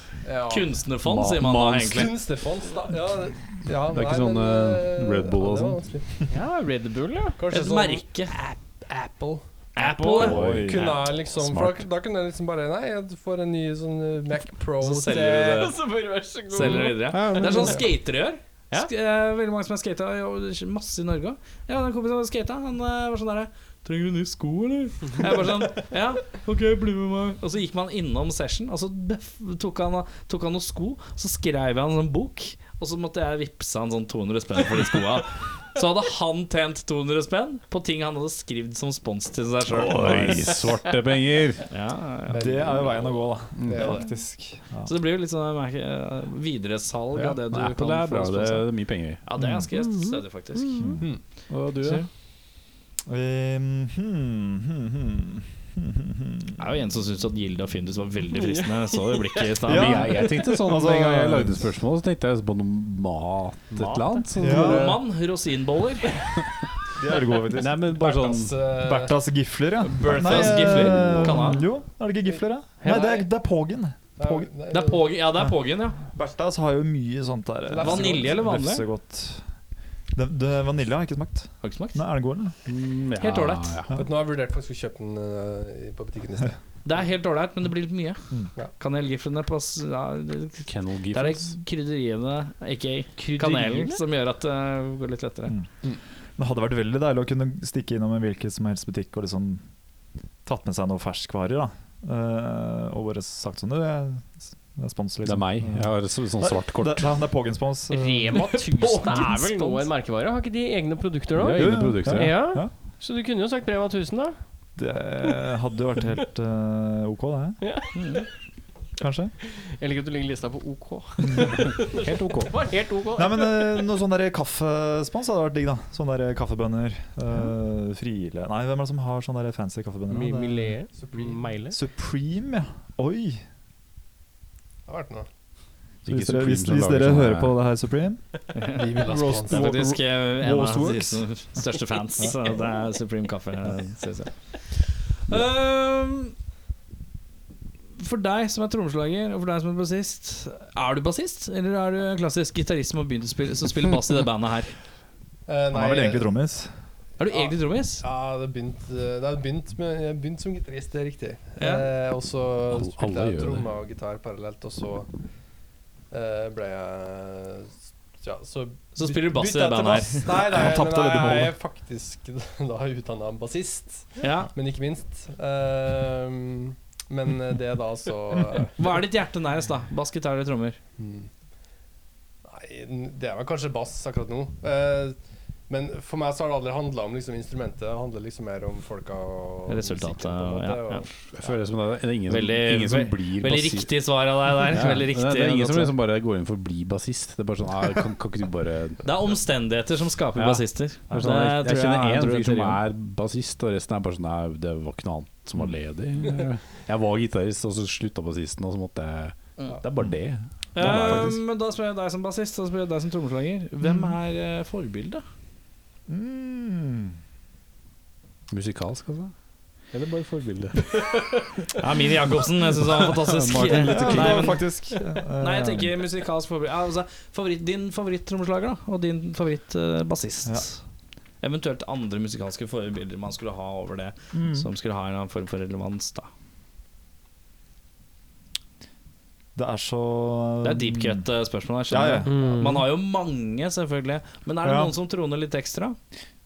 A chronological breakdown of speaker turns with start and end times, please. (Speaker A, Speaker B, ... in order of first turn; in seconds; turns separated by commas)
Speaker A: 0.2-0.7, Speaker B: 0.5-2.2, Speaker C: 1.1-2.1, Speaker A: 1.9-6.1, Speaker C: 3.9-5.8, Speaker D: 6.3-7.4, Speaker A: 7.4-15.7, Speaker B: 7.5-8.3, Speaker B: 9.8-10.8, Speaker E: 10.2-10.9, Speaker C: 10.2-11.9, Speaker B: 14.8-15.8, Speaker D: 15.1-17.8, Speaker B: 16.5-40.6, Speaker C: 17.1-17.8, Speaker C: 39.7-41.7, Speaker B: 41.7-42.4, Speaker A: 42.3-44.0, Speaker E: 42.4-44.9, Speaker C: 43.6-44.0, Speaker B: 44.9-48.7, Speaker C: 47.1-49.2, Speaker B: 49.2-50.9, Speaker E: 49.4-49.6, Speaker D: 49.8-50.9, Speaker E: 50.8-51.0, Speaker C: 51.5-52.1, Speaker B: 51.8-52.1, Speaker E: 53.1-56.6, Speaker B: 56.6-60.2, Speaker D: 58.4-59.5, Speaker C: 59.6-65.0, Speaker E: 59.6-61.7, Speaker B: 63.8-66.4, Speaker E: 64.4-65.0, Speaker E: 67.0-68.0, Speaker C: 67.6-68.6, Speaker A: 68.0-69.2, Speaker E: 68.8-74.5, Speaker B: 69.8-71.7, Speaker C: 70.1-71.5, Speaker D: 72.8-73.2, Speaker A: 74.2-75.1, Speaker B: 74.7-76.0, Speaker E: 76.0-79.4, Speaker A: 77.7-78.4, Speaker B: 77.8-78.9, Speaker E: 80.1-82.5, Speaker B: 81.6-82.0, Speaker C: 82.7-83.9, Speaker B: 83.2-83.8, Speaker A: 83.9-86.6, Speaker B: 86.8-95.5, Speaker C: 90.7-91.5, Speaker D: 93.2-94.0, Speaker E: 96.4-99.6, Speaker E: 100.5-109.3, Speaker C: 105.2-107.1, Speaker D: 107.9-114.4, Speaker B: 109.1-109.8, Speaker C: 111.4-112.6, Speaker E: 111.5-112.7, Speaker E: 114.8-117.6, Speaker D: 117.6-118.2, Speaker B: 118.0-118.2, Speaker E: 119.0-119.3, Speaker D: 119.5-123.8, Speaker E: 121.3-121.6, Speaker C: 122.0-122.6, Speaker E: 123.2-130.8, Speaker D: 130.1-131.8, Speaker A: 130.9-131.4, Speaker E: 131.7-133.4, Speaker A: 134.9-135.3, Speaker C: 136.1-137.6, Speaker E: 136.1-138.2, Speaker B: 138.6-146.3, Speaker A: 138.7-139.7, Speaker E: 138.8-141.2, Speaker B: 148.0-154.8, Speaker A: 155.5-156.3, Speaker E: 155.7-156.7, Speaker B: 157.2-158.0, Speaker A: 157.3-165.1, Speaker B: 161.6-161.9, Speaker C: 162.7-163.7, Speaker A: 166.1-178.8, Speaker B: 168.9-170.5, Speaker E: 170.5-171.6, Speaker B: 174.2-174.5, Speaker B: 178.8-180.8, Speaker A: 181.0-181.3, Speaker A: 182.4-185.2, Speaker A: 185.7-191.3, Speaker B: 189.7-191.1, Speaker C: 191.3-193.9, Speaker B: 192.3-195.9, Speaker C: 194.7-199.0, Speaker B: 199.0-202.8, Speaker C: 200.3-211.3, Speaker B: 210.7-215.2, Speaker E: 210.8-211.4, Speaker E: 213.8-214.1, Speaker E: 216.1-217.2, Speaker C: 218.5-219.3, Speaker C: 219.9-220.9, Speaker B: 221.7-224.7, Speaker C: 222.8-224.6, Speaker E: 223.7-225.9, Speaker B: 225.4-230.8, Speaker B: 231.4-236.3, Speaker E: 234.3-234.7, Speaker E: 239.6-241.2, Speaker B: 240.6-246.0, Speaker E: 241.9-242.6, Speaker D: 242.3-242.8, Speaker E: 244.6-244.9